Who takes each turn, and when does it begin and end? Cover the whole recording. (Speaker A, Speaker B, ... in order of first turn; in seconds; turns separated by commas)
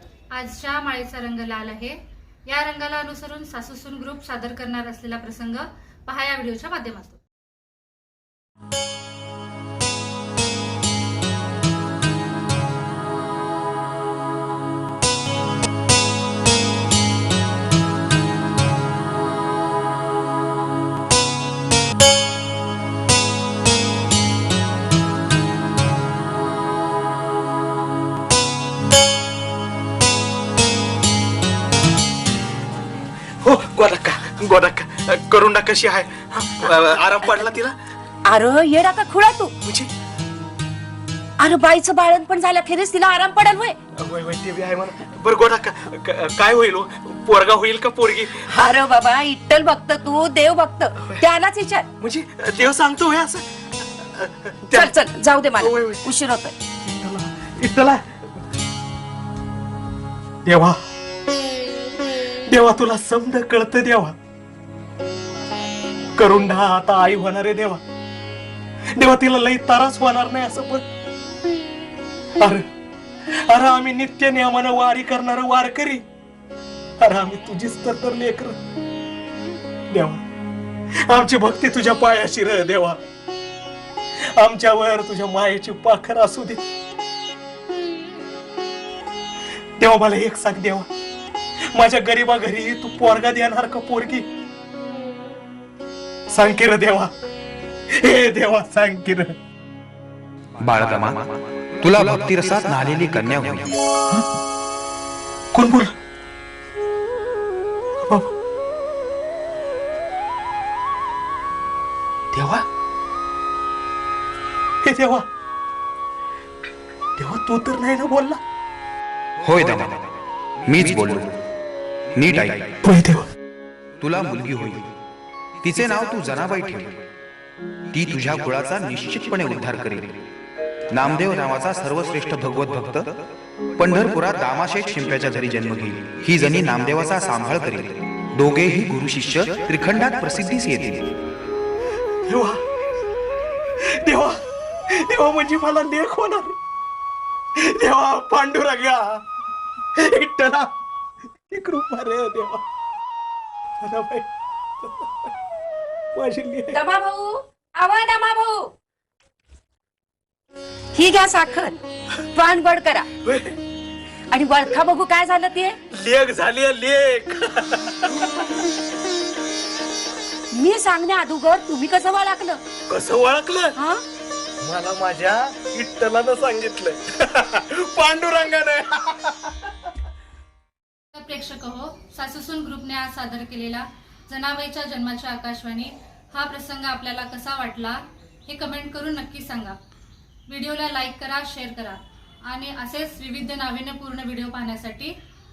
Speaker A: 0.3-7.2, Speaker B: 33.4-37.8, Speaker C: 37.2-37.5, Speaker C: 38.2-39.5, Speaker B: 39.6-39.9, Speaker C: 41.4-43.8, Speaker B: 44.0-48.5, Speaker C: 48.4-51.9, Speaker B: 52.0-54.9, Speaker C: 54.7-56.5, Speaker B: 55.6-56.0, Speaker B: 56.8-58.0, Speaker B: 60.4-60.8, Speaker B: 62.5-64.1, Speaker B: 66.2-67.8, Speaker B: 68.9-70.8, Speaker B: 72.4-72.6, Speaker B: 73.3-76.0, Speaker B: 77.0-78.6, Speaker B: 79.9-80.2, Speaker B: 81.0-83.0, Speaker B: 84.2-86.6, Speaker B: 89.8-90.9, Speaker B: 91.7-94.3, Speaker B: 96.3-97.1, Speaker B: 97.9-99.3, Speaker D: 100.6-103.8, Speaker B: 105.5-105.9, Speaker B: 112.3-112.6, Speaker B: 114.8-115.2, Speaker B: 117.2-118.4, Speaker D: 119.4-120.0, Speaker D: 120.7-121.4, Speaker D: 122.1-122.8, Speaker B: 122.8-123.2, Speaker D: 124.0-124.9, Speaker D: 125.6-127.0, Speaker D: 127.9-130.2, Speaker D: 130.9-133.2, Speaker D: 133.8-141.1, Speaker B: 142.2-142.6, Speaker B: 143.8-146.6, Speaker B: 147.6-149.2, Speaker B: 150.0-150.7, Speaker B: 151.5-152.6, Speaker B: 153.8-154.3, Speaker B: 154.8-155.1, Speaker B: 156.1-156.8, Speaker C: 156.7-158.7, Speaker C: 160.9-161.8, Speaker C: 162.3-163.1, Speaker B: 163.2-163.6, Speaker C: 164.3-165.8, Speaker B: 165.9-168.2, Speaker C: 170.5-172.6, Speaker B: 172.9-173.7, Speaker C: 173.7-174.0, Speaker B: 174.6-179.6, Speaker A: 181.1-189.8, Speaker A: 190.5-195.1